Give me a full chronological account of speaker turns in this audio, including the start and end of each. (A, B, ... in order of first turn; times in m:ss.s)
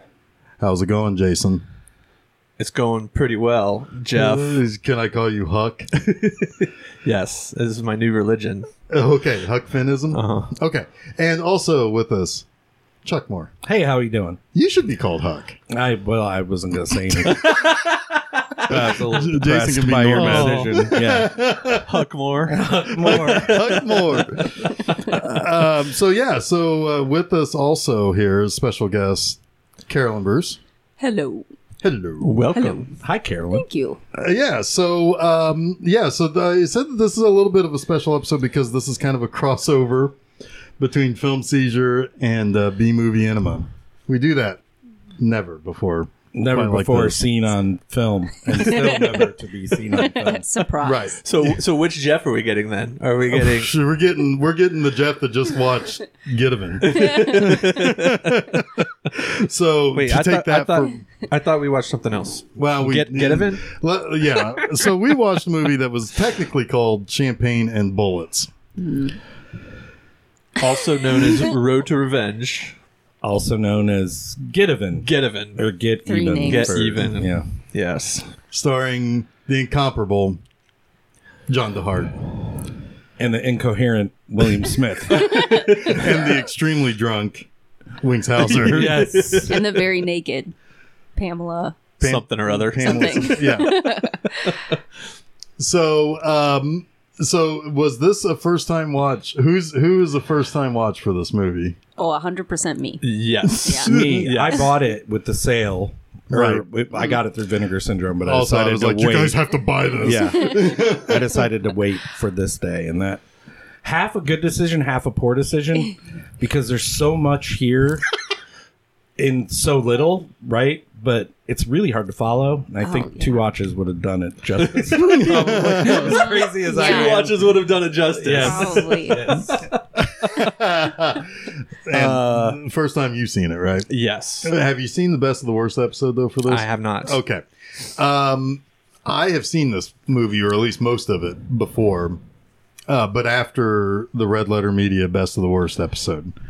0:00.6-0:01.6 A
0:02.6-0:04.6 B
0:04.1-0:05.9 A
0:06.2-0:08.7 B
0:08.9-0:12.4 A
0:10.1-0:10.5 B
0:13.0-0:13.5 A
0:13.6-0:14.4 C
0:14.5-0:15.6 A
0:15.7-0:17.6 C
0:17.2-0:18.2 B
0:18.6-0:21.4 C
0:18.7-0:21.9 A
0:20.1-0:20.9 B
0:21.8-0:24.8 B
0:22.5-0:23.6 C
0:22.9-0:30.6 A
0:31.0-0:31.4 D
0:31.8-0:32.4 A
0:32.2-0:32.9 B
0:32.5-0:32.9 D
0:33.0-0:33.6 C
0:33.5-0:34.0 D
0:34.1-0:40.2 A
0:40.8-0:44.6 A
0:45.2-0:47.2 A
0:46.3-0:50.4 C
0:48.5-0:49.2 D
0:49.9-0:51.2 D
0:50.8-0:51.6 A
0:51.2-0:53.7 B
0:53.3-1:01.0 A
0:56.8-0:58.4 B
0:59.9-1:03.6 B
1:02.6-1:08.5 A
1:08.8-1:09.2 D
1:10.6-1:12.7 B
1:13.2-1:17.4 C
1:15.0-1:15.6 B
1:16.0-1:17.0 D
1:16.4-1:18.3 B
1:18.5-1:20.4 A
1:21.5-1:22.2 A
1:23.2-1:25.9 C
1:25.4-1:27.5 A
1:25.6-1:26.0 B
1:28.0-1:29.4 A
1:28.4-1:29.7 B
1:28.5-1:29.6 C
1:29.4-1:30.5 D
1:31.1-1:31.8 D
1:32.0-1:34.0 A
1:32.0-1:33.5 B
1:32.8-1:34.6 D
1:35.6-1:41.8 A
1:42.0-1:43.1 D
1:43.0-1:44.7 B
1:43.6-1:43.9 D
1:43.8-1:49.4 C
1:43.9-1:44.3 A
1:46.3-1:46.6 A
1:48.2-1:51.4 A
1:50.0-1:53.2 C
1:53.8-1:58.1 C
1:59.2-2:07.4 C
2:02.8-2:03.4 D
2:04.6-2:09.7 B
2:05.0-2:06.2 A
2:05.9-2:07.3 D
2:08.2-2:09.6 C
2:08.4-2:09.4 D
2:10.0-2:13.9 A
2:11.9-2:12.6 B
2:13.9-2:14.5 B
2:14.4-2:22.2 A
2:16.4-2:17.2 B
2:22.9-2:26.3 A